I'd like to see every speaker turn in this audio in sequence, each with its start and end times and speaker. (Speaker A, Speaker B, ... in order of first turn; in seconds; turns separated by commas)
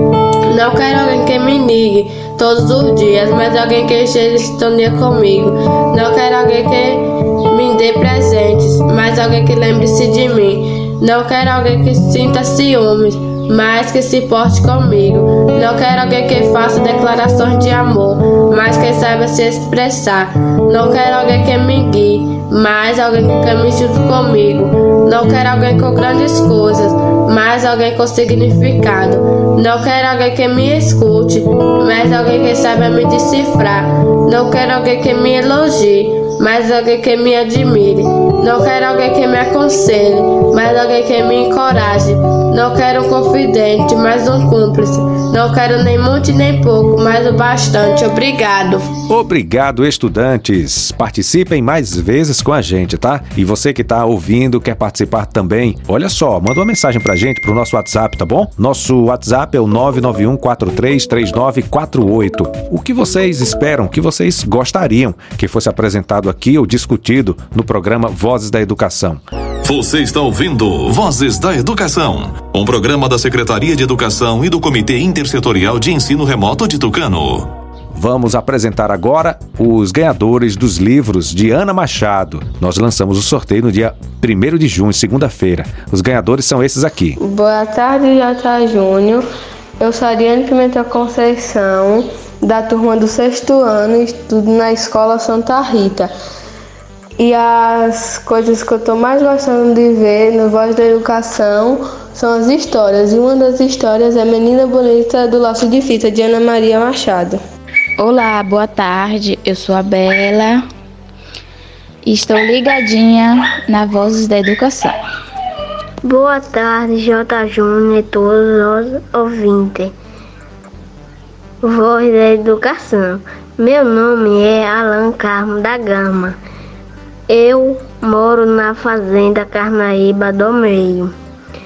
Speaker A: 0.5-48.9, Speaker B: 49.1-69.2, Speaker C: 69.6-77.5, Speaker B: 77.9-87.2, Speaker D: 87.2-89.2, Speaker D: 89.8-96.1, Speaker D: 97.2-107.4, Speaker E: 108.0-110.7, Speaker E: 112.0-114.9, Speaker F: 116.0-119.9, Speaker F: 121.6-126.3, Speaker F: 127.3-131.1